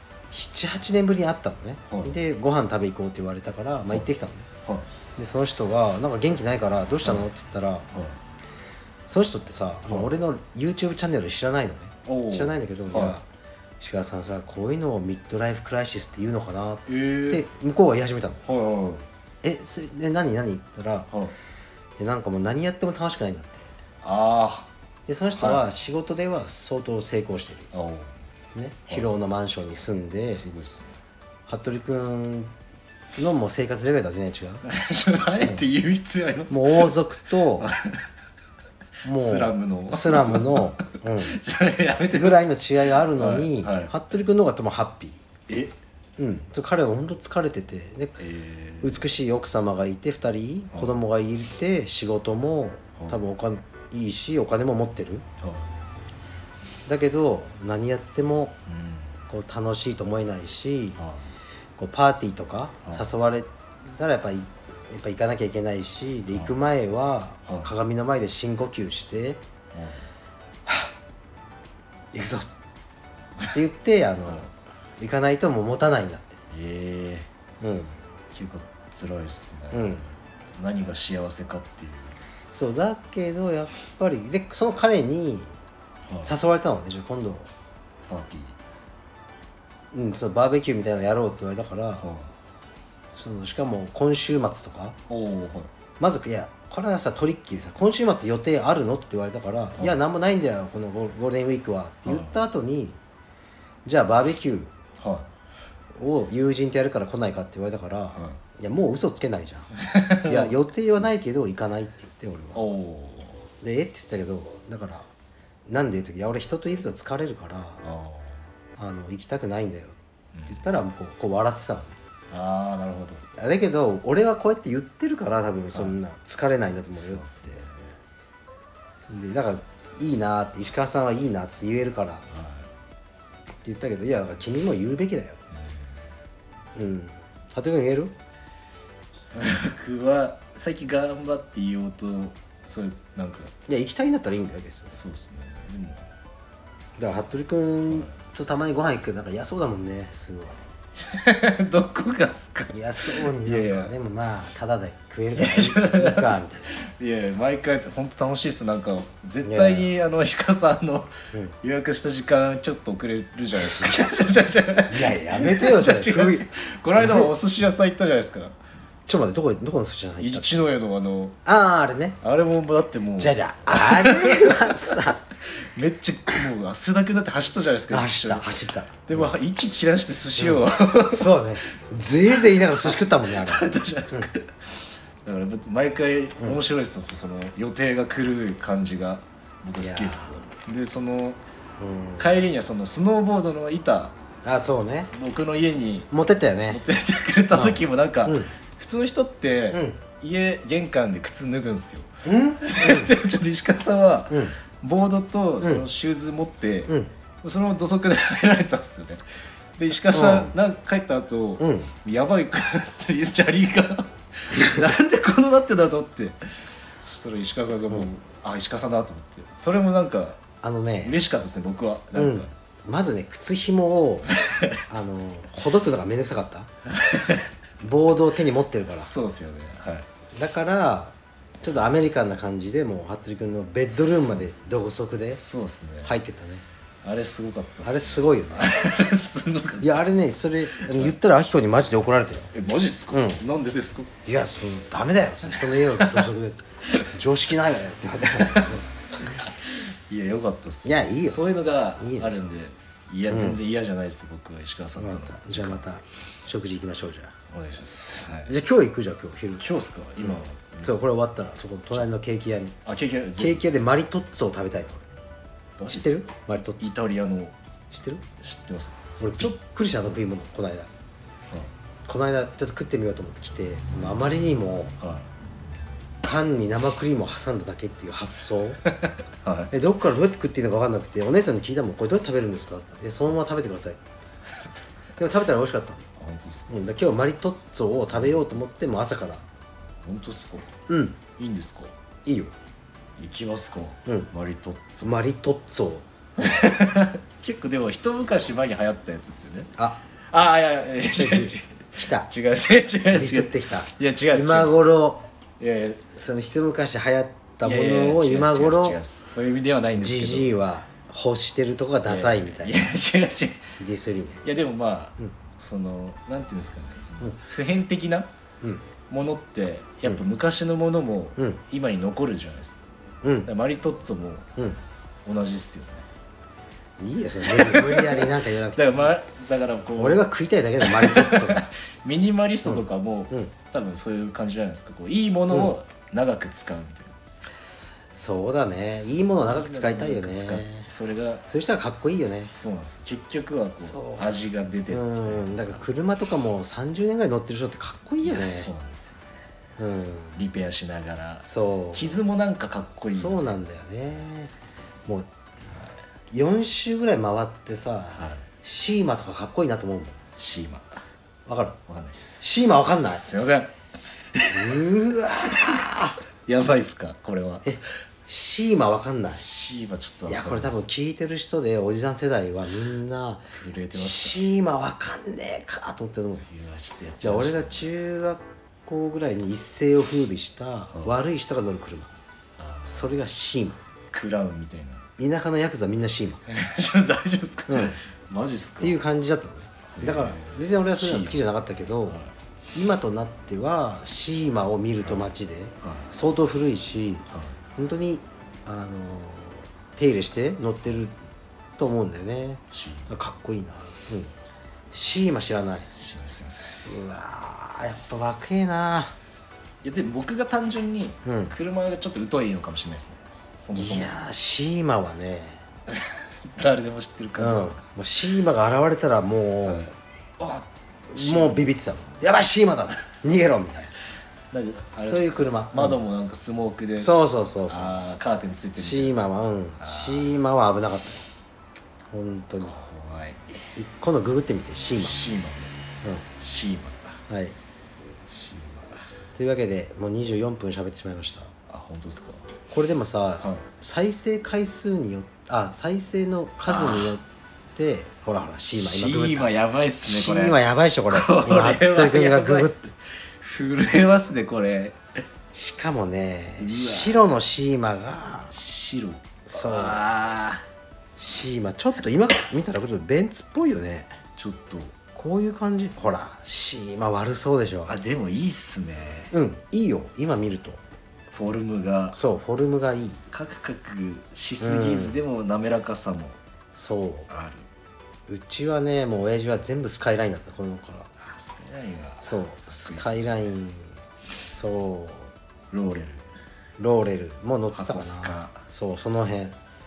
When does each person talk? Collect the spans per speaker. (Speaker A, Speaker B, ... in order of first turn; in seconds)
Speaker A: 0.3-4.5, 5.2-7.9, 9.1-13.2, 13.8-18.4, 19.4-21.1, 22.0-23.7, 25.1-27.7, 28.5-30.4, 31.5-32.5, 33.2-34.6, 36.5-37.7, 39.0-41.4, 42.1-45.2, 46.2-48.1, 48.8-55.2, 56.9-58.6, 59.3-61.0, 61.8-69.4, 70.7-70.9, 72.1-72.5, 73.5-76.4, 77.6-78.0, 79.7-80.0, 82.5-85.6, 86.2-87.5, 89.9-92.0, 93.1-95.0, 96.0-103.0, 103.8-104.7, 105.9-109.7, 110.2-112.7, 113.6-115.1, 115.7-117.8, 118.8-122.0, 123.4-127.6, 129.1-132.2, 133.6-135.4, 136.7-138.1, 143.7-145.0, 147.0-150.6, 152.7-156.7, 159.4-159.9, 163.6-164.1, 164.9-167.3, 169.1-170.6, 171.4-172.2, 173.2-175.2, 177.9-179.3, 180.4-184.3, 189.8-190.4, 191.8-192.3, 194.4-195.1, 196.1-196.8, 197.5-198.5, 199.7-200.0, 202.2-203.1, 204.3-204.6, 210.1-210.5, 211.6-211.9, 214.5-214.8, 220.6-221.2, 222.1-224.3, 224.9-226.7, 227.8-229.1, 230.3-235.4, 236.0-236.6, 237.8-238.7, 239.8-242.5, 243.1-243.4, 244.2-249.3, 250.8-251.4, 252.0-252.5, 253.3-253.6, 255.0-257.3, 258.5-259.6, 260.2-262.8, 263.4-265.1, 265.9-266.9, 267.9-268.2, 269.2-270.9, 272.1-274.9, 276.2-278.8, 279.7-284.0, 285.2-286.1, 286.7-289.4, 290.9-291.2, 292.2-292.5, 295.0-296.6, 299.8-300.0, 301.1-302.3, 303.1-305.2, 306.1-309.0, 310.0-312.8, 313.8-314.4, 323.2-323.5, 327.0-329.1, 330.0-331.7, 332.6-333.5, 338.1-340.9, 341.5-342.5, 343.8-344.3, 344.9-348.7, 349.8-350.4, 351.4-352.2, 353.1-354.5, 356.3-360.2, 361.4-361.8, 362.4-363.2, 364.5-366.2, 367.6-369.4, 370.3-376.5, 377.2-382.1, 382.9-383.8, 385.2-386.4, 387.7-388.0, 388.8-392.2, 392.7-401.1, 401.8-404.3, 404.9-405.9, 406.9-409.1, 411.2-411.5, 413.7-415.6, 417.4-419.9, 421.1-423.9, 425.0-426.0, 427.0-428.0, 428.8-431.2, 432.1-432.8, 433.8-435.2, 437.3-437.6, 439.3-441.5, 442.7-449.5, 450.0-452.8, 455.5-458.5, 459.5-460.0, 461.2-464.1, 465.1-467.9, 469.3-470.8, 472.1-473.2, 474.6-475.2, 476.7-477.3, 478.3-481.1, 482.2-485.3, 486.8-489.6
Speaker B: 1.9-2.1, 7.9-8.2, 12.1-13.2, 16.9-17.4, 18.4-19.1, 24.0-24.7, 25.4-25.6, 27.7-28.2, 30.3-30.9, 34.6-37.0, 37.5-38.0, 39.0-42.5, 43.1-43.9, 45.5-45.7, 48.2-49.1, 55.4-55.7, 58.7-59.2, 61.0-61.3, 67.5-67.7, 69.7-70.1, 76.5-77.3, 78.3-82.2, 86.1-86.3, 88.1-88.6, 92.0-92.3, 95.1-95.7, 102.1-102.4, 105.0-105.3, 109.8-110.6, 112.5-113.5, 117.8-118.4, 120.3-120.6, 122.3-123.3, 126.9-127.9, 132.3-132.7, 135.5-136.0, 139.3-143.5, 144.9-146.1, 151.1-153.9, 155.3-168.5, 170.2-171.3, 172.2-181.3, 182.3-184.5, 185.2-191.4, 192.2-194.2, 195.1-196.1, 196.7-209.2, 209.8-220.4, 221.0-222.5, 224.3-224.8, 226.9-227.5, 228.9-230.1, 234.0-234.6, 235.3-236.1, 237.0-240.1, 240.7-241.2, 242.5-244.1, 245.7-246.3, 248.4-255.8, 257.5-258.5, 259.6-260.9, 262.8-263.6, 265.8-266.2, 266.8-267.5, 268.4-269.5, 275.0-275.3, 278.9-279.7, 286.2-286.8, 288.1-288.6, 290.0-290.7, 291.4-291.9, 293.2-295.0, 296.4-299.7, 300.3-304.8, 305.6-306.1, 307.6-310.5, 312.1-313.7, 314.4-318.3, 319.1-322.8, 323.4-324.5, 325.2-326.1, 327.4-330.3, 330.8-337.2, 339.2-341.4, 342.4-345.8, 348.2-349.2, 350.4-353.6, 355.7-356.0, 358.2-358.4, 360.4-361.0, 361.9-362.5, 363.1-363.7, 364.3-364.8, 366.4-367.8, 369.3-370.8, 373.5-374.4, 376.5-377.9, 382.6-383.1, 384.1-385.1, 386.5-389.0, 389.9-391.4, 392.1-392.3, 395.8-396.1, 397.3-397.6, 402.7-403.1, 405.9-406.9, 409.8-414.1, 415.9-417.8, 419.6-421.7, 424.5-427.1, 427.7-429.2, 429.8-430.3, 432.6-433.6, 434.9-435.8, 436.3-437.2, 438.3-439.0, 441.7-442.5, 443.4-443.7, 446.6-447.2, 448.7-455.2, 456.6-457.3, 458.5-460.6, 464.4-464.9, 467.9-469.3, 471.3-472.2, 473.3-476.4, 477.3-477.7, 481.2-483.2, 485.7-486.2, 487.7-488.6